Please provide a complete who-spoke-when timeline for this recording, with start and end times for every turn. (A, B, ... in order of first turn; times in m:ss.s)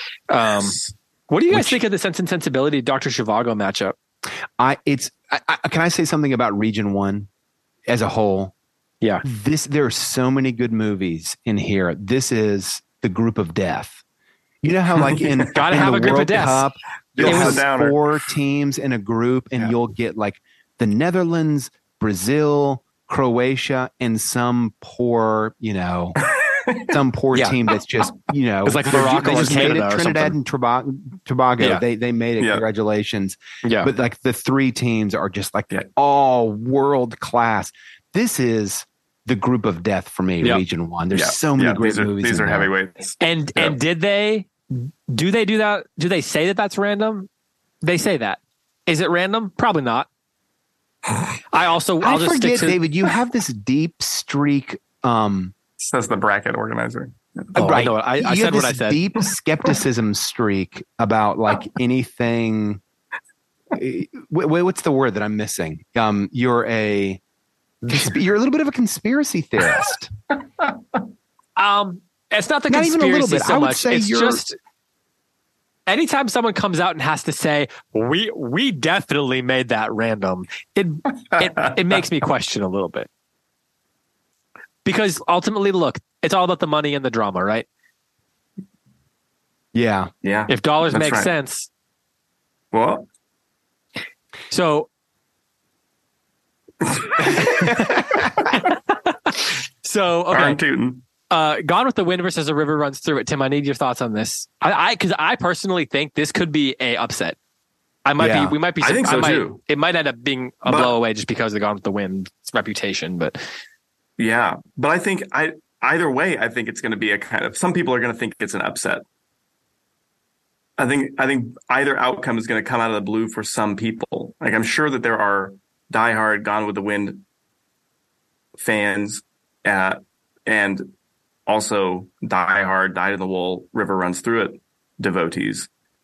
0:00.3-0:00.8 A
0:00.6-0:00.9 B
0:01.3-0:03.9 A
0:01.5-0:01.8 C
0:04.6-0:07.3 C
0:07.9-0:08.5 C
0:09.2-0:14.0 C
0:14.6-0:26.2 C
0:15.0-0:15.8 B
0:15.5-0:16.7 A
0:17.2-0:18.1 B
0:17.2-0:17.6 A
0:26.2-0:27.0 B
0:26.9-0:42.7 C
0:28.6-0:30.3 A
0:29.2-0:29.7 B
0:33.6-0:33.9 A
0:41.1-0:43.8 B
0:43.2-0:47.3 A
0:47.8-0:50.1 A
0:51.5-0:52.8 A
0:52.0-0:55.5 C
0:55.8-0:57.7 B
0:57.5-0:59.0 A
0:57.6-1:02.8 C
1:03.7-1:07.2 C
1:07.9-1:10.1 C
1:11.6-1:14.6 A
1:12.7-1:14.4 C
1:15.9-1:23.1 A
1:21.4-1:21.7 B
1:24.8-1:27.6 A
1:29.7-1:30.1 C
1:30.2-1:31.3 B
1:30.5-1:31.7 A
1:32.7-1:33.0 B
1:34.5-1:34.9 A
1:36.8-1:38.5 B
1:37.3-1:40.6 A
1:37.7-1:38.0 C
1:40.3-1:41.0 B
1:41.3-1:47.4 A
1:48.0-1:53.4 A
1:48.2-1:48.6 C
1:48.8-1:49.6 B
1:50.7-1:50.9 B
1:54.2-1:59.0 B
2:00.8-2:07.2 B
2:08.6-2:10.9 B
2:11.5-2:15.7 B